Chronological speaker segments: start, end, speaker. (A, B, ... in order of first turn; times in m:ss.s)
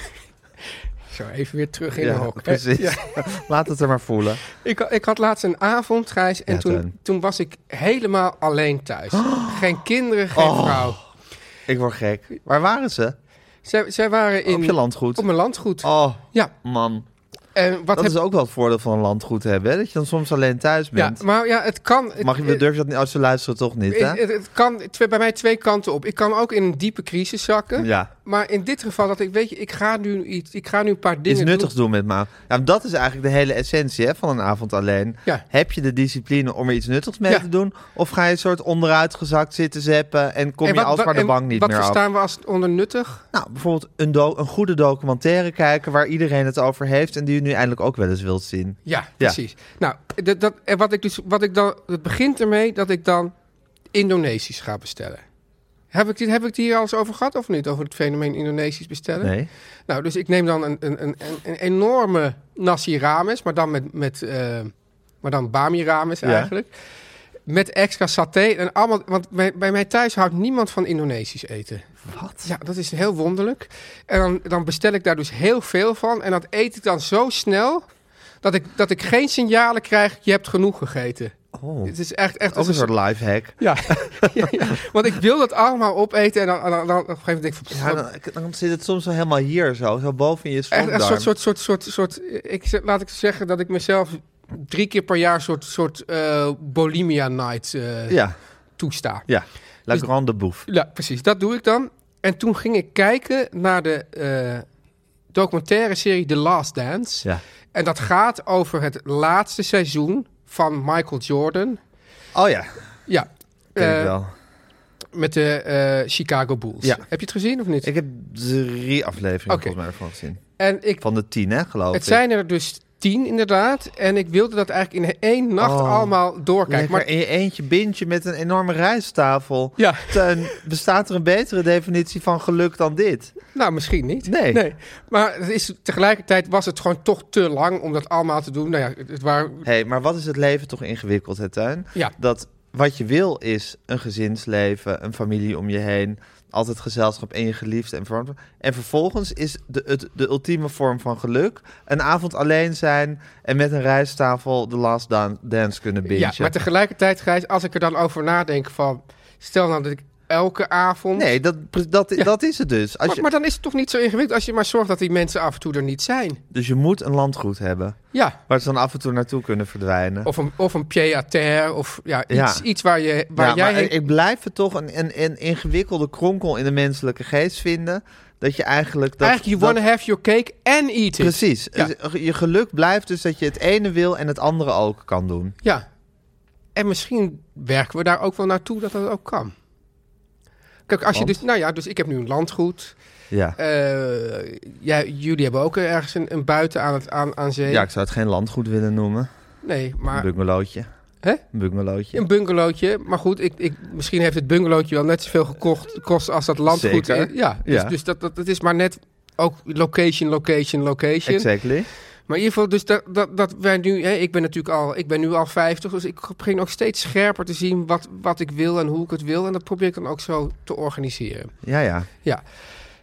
0:01.1-0:03.0 A
0:02.0-0:04.4 B
0:04.6-0:11.0 A
0:06.5-0:06.9 B
0:09.1-0:09.7 B
0:10.3-0:11.0 B
0:11.7-0:13.2 B
0:13.6-0:16.5 A
0:14.5-0:15.3 B
0:15.8-0:17.1 B
0:17.6-0:18.2 A
0:17.9-0:21.2 B
0:21.0-0:22.6 A
0:22.2-0:24.2 B
0:23.9-0:31.7 A
0:27.8-0:28.1 B
0:31.3-0:42.0 B
0:40.6-0:43.2 A
0:43.3-0:49.4 B
0:48.9-0:53.3 A
0:53.9-0:55.2 A
0:55.9-0:59.3 A
0:59.2-0:59.5 B
0:59.9-1:06.7 A
1:06.2-1:06.5 B
1:07.5-1:11.9 A
1:12.0-1:12.5 B
1:12.4-1:17.8 A
1:18.4-1:21.3 A
1:21.5-1:22.0 B
1:21.8-1:22.9 A
1:22.5-1:24.6 B
1:23.6-1:28.0 A
1:27.7-1:31.3 B
1:30.7-1:38.2 A
1:38.1-1:38.4 B
1:38.8-1:39.2 A
1:39.3-1:40.7 B
1:40.7-1:44.6 A
1:45.3-1:51.8 A
1:52.4-1:52.8 B
1:53.1-1:54.1 A
1:53.8-1:54.3 B
1:55.2-1:57.9 A
1:57.8-2:00.4 B
1:59.5-1:59.7 A
2:00.6-2:01.0 A
2:01.0-2:02.2 B
2:01.9-2:07.1 A
2:05.6-2:06.2 B
2:06.7-2:13.4 B
2:09.8-2:10.5 A
2:13.5-2:19.6 A
2:14.2-2:14.6 B
2:19.6-2:36.5 B
2:36.1-2:41.3 A
2:41.2-2:43.2 B
2:43.1-2:46.4 A
2:46.5-2:50.3 B
2:48.1-2:48.4 A
2:50.2-2:54.0 A
2:52.3-2:52.6 B
2:53.4-2:59.8 B
2:59.2-3:01.9 A
3:01.2-3:05.5 B
3:06.8-3:09.5 A
3:10.9-3:13.0 A
3:11.1-3:11.4 B
3:13.3-3:13.6 B
3:13.6-3:17.9 A
3:17.7-3:19.3 B
3:19.6-3:20.3 A
3:20.1-3:20.9 B
3:21.5-3:22.2 B
3:22.1-3:31.5 A
3:26.7-3:28.0 B
3:31.3-3:31.9 B
3:32.3-3:41.5 A
3:41.6-3:42.1 B